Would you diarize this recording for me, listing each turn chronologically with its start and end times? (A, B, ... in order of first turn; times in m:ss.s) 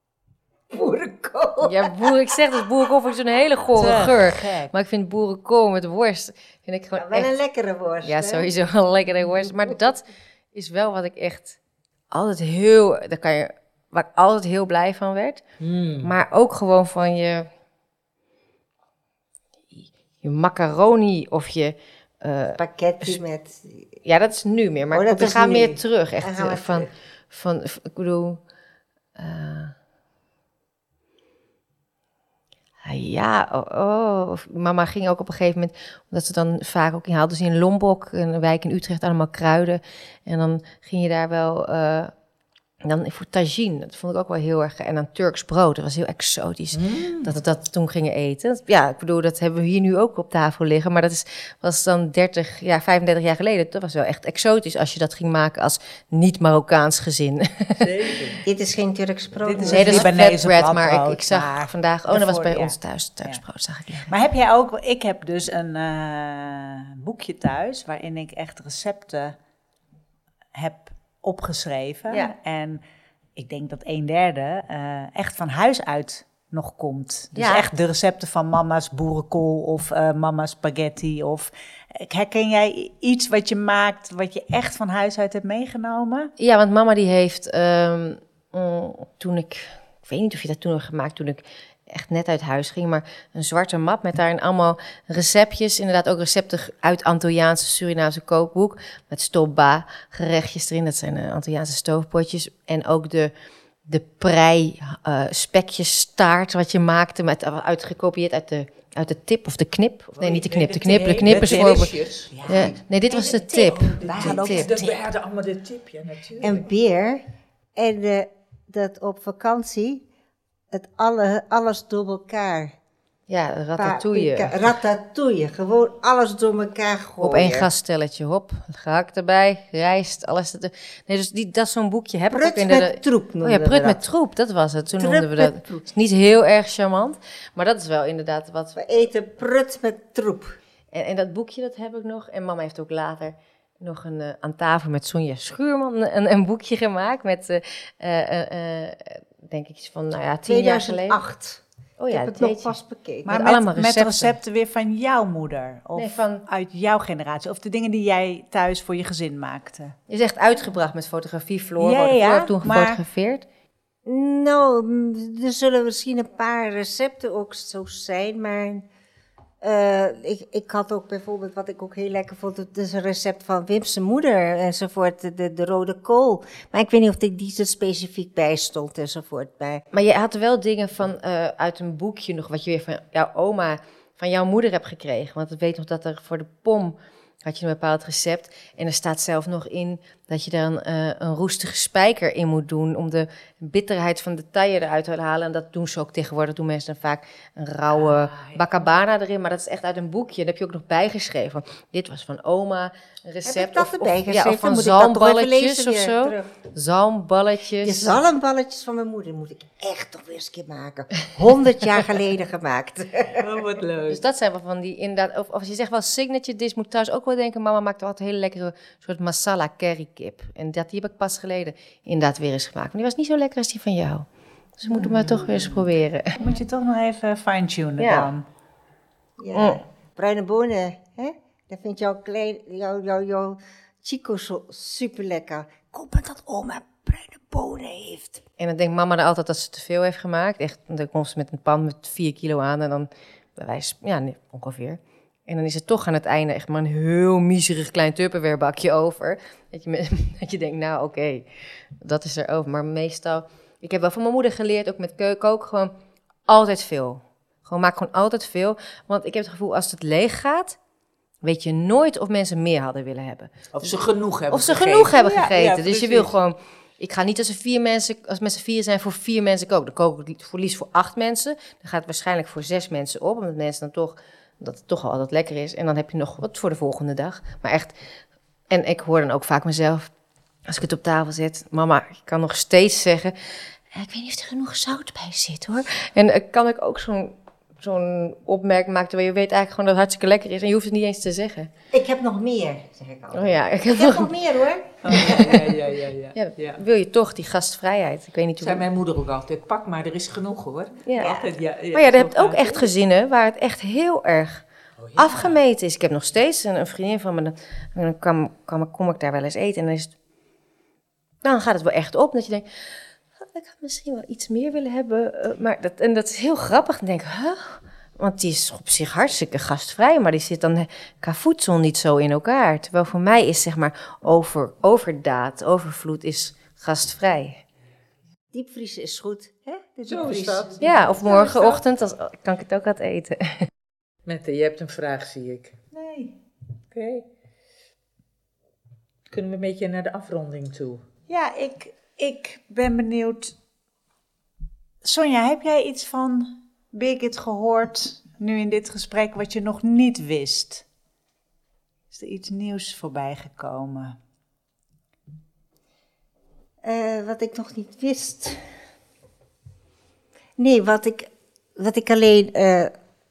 0:00.7-0:02.6 A
0:01.6-0:07.3 B
0:03.8-0:04.7 C
0:07.0-0:08.5 A
0:08.0-0:11.6 B
0:12.1-0:15.4 B
0:15.6-0:16.1 D
0:16.0-0:17.5 B
0:19.7-0:23.2 B
0:22.6-0:23.9 A
0:24.0-0:28.4 B
0:24.9-0:26.9 A
0:29.2-0:29.8 B
0:32.8-0:42.1 B
0:42.8-0:57.9 B
0:46.7-0:47.4 D
0:57.8-0:58.4 D
0:58.4-1:00.1 A
0:59.4-1:03.4 C
0:59.6-1:04.1 B
1:04.1-1:09.4 C
1:10.5-1:12.8 C
1:12.1-1:12.4 B
1:13.4-1:26.3 C
1:17.4-1:17.7 B
1:26.4-1:43.3 B
1:43.9-1:51.9 B
1:50.2-1:52.8 D
1:50.9-1:54.5 C
1:52.5-1:54.9 B
1:53.4-1:56.6 D
1:54.0-1:54.7 A
1:56.4-1:57.2 A
1:57.8-2:00.0 A
2:00.7-2:02.8 A
2:03.3-2:04.7 B
2:03.8-2:07.7 A
2:07.2-2:18.9 B
2:12.3-2:14.0 A
2:15.0-2:15.9 A
2:18.8-2:20.6 A
2:20.9-2:31.2 B
2:30.5-2:33.4 A
2:32.0-2:32.8 B
2:33.2-2:40.0 C
2:33.3-2:34.4 B
2:36.0-2:36.4 B
2:40.1-2:43.4 B
2:41.8-2:43.0 C
2:44.0-2:48.8 A
2:49.6-2:59.8 A
2:59.9-3:28.2 B
3:17.9-3:18.6 D
3:23.4-3:26.5 A
3:27.8-3:33.7 A
3:33.4-3:34.2 D
3:34.1-3:44.3 B
3:44.8-3:46.4 B
3:46.4-3:48.4 C
3:48.0-3:48.3 B
3:49.4-3:58.4 A
3:49.5-3:49.8 B
3:58.6-4:15.9 B
4:16.5-4:20.8 B
4:21.4-4:23.9 B
4:23.7-4:26.3 D
4:24.5-4:38.0 B
4:25.2-4:25.8 C
4:38.7-4:40.1 B
4:40.7-4:51.7 B
4:51.9-4:55.2 A
4:53.3-4:54.3 B
4:55.0-4:56.8 D
4:55.1-4:55.7 B
4:56.4-4:58.9 B
4:58.6-5:02.9 D
5:01.0-5:04.6 B
5:05.0-5:05.6 D
5:05.2-5:10.1 B
5:11.4-5:27.6 B
5:28.5-5:31.2 A
5:30.1-5:31.8 D
5:30.8-5:33.7 B
5:34.2-5:35.8 D
5:35.9-5:36.3 C
5:36.9-5:37.3 D
5:39.3-5:41.0 D
5:41.3-5:43.6 C
5:45.0-5:50.8 C
5:52.1-5:54.2 C
5:56.8-5:58.6 A
6:00.6-6:02.9 A